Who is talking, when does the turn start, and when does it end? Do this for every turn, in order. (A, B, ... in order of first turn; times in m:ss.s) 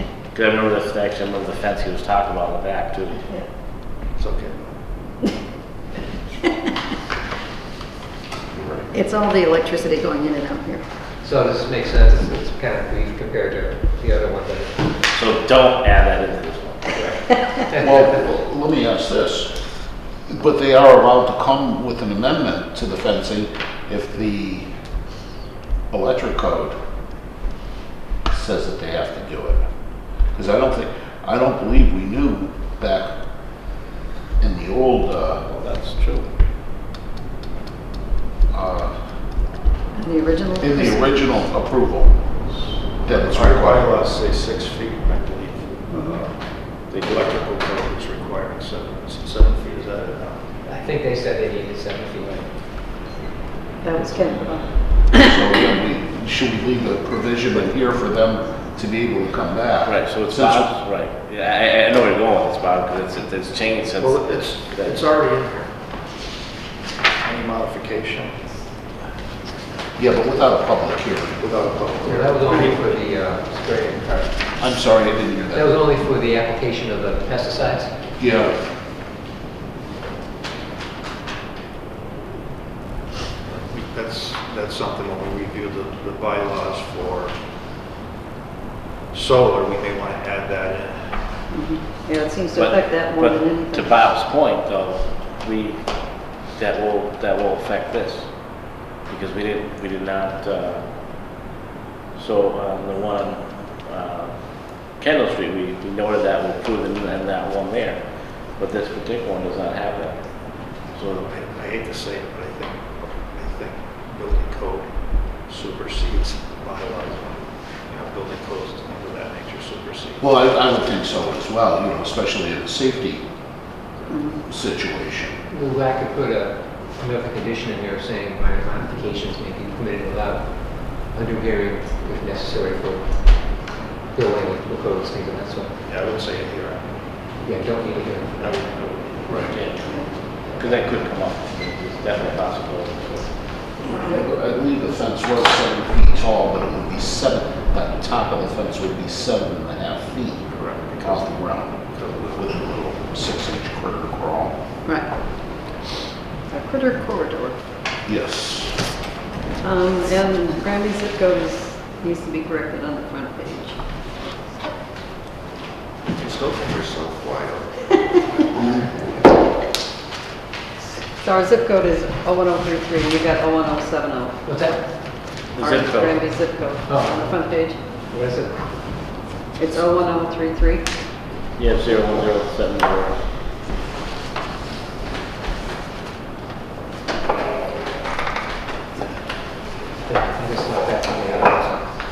0:00.3-0:03.2 A
0:04.2-0:04.6 B
0:08.5-0:08.9 C
0:08.9-0:10.8 D
0:11.2-0:14.9 E
0:15.1-0:17.0 A
0:16.9-0:18.1 E
0:17.8-0:19.7 C
0:20.3-0:24.7 C
0:25.9-0:26.8 C
0:28.3-0:29.6 C
0:30.3-0:33.1 C
0:34.4-0:35.5 C
0:35.5-0:36.3 A
0:38.5-0:39.0 C
0:39.9-0:41.2 D
0:40.6-0:42.3 C
0:43.0-0:44.0 C
0:43.1-0:50.6 B
0:45.9-0:46.2 D
0:46.9-0:47.4 A
0:50.6-0:52.6 E
0:53.8-0:55.2 D
0:54.0-0:54.6 E
0:55.0-1:00.7 C
0:59.8-1:05.1 A
1:04.0-1:05.7 B
1:07.2-1:08.4 B
1:10.0-1:11.5 C
1:11.4-1:13.0 B
1:12.0-1:14.5 E
1:14.6-1:15.8 C
1:15.5-1:18.0 E
1:18.2-1:18.6 C
1:23.5-1:27.4 B
1:29.1-1:31.2 B
1:31.5-1:33.9 D
1:32.5-1:41.3 A
1:42.1-1:51.3 A
1:51.0-2:00.2 B
2:00.2-2:03.2 C
2:04.1-2:04.4 D
2:04.5-2:05.4 C
2:05.5-2:15.8 E
2:15.8-2:16.9 B
2:17.4-2:18.8 E
2:18.3-2:19.6 B
2:19.4-2:23.2 A
2:19.7-2:20.1 D
2:23.9-2:24.1 D
2:23.9-2:34.6 C
2:30.6-2:31.3 B
2:31.9-2:32.5 B
2:34.8-2:35.3 D
2:36.5-2:37.6 D
2:38.1-2:38.9 C
2:39.6-2:43.8 D
2:46.2-2:47.9 B
2:49.0-2:49.5 E
2:51.2-2:54.6 D
2:54.5-2:54.8 E
2:55.6-2:56.5 A
2:55.6-2:57.8 D
2:56.9-2:57.3 E
2:58.1-2:58.6 E
2:59.6-3:00.8 D
3:01.6-3:03.2 A
3:10.0-3:12.0 E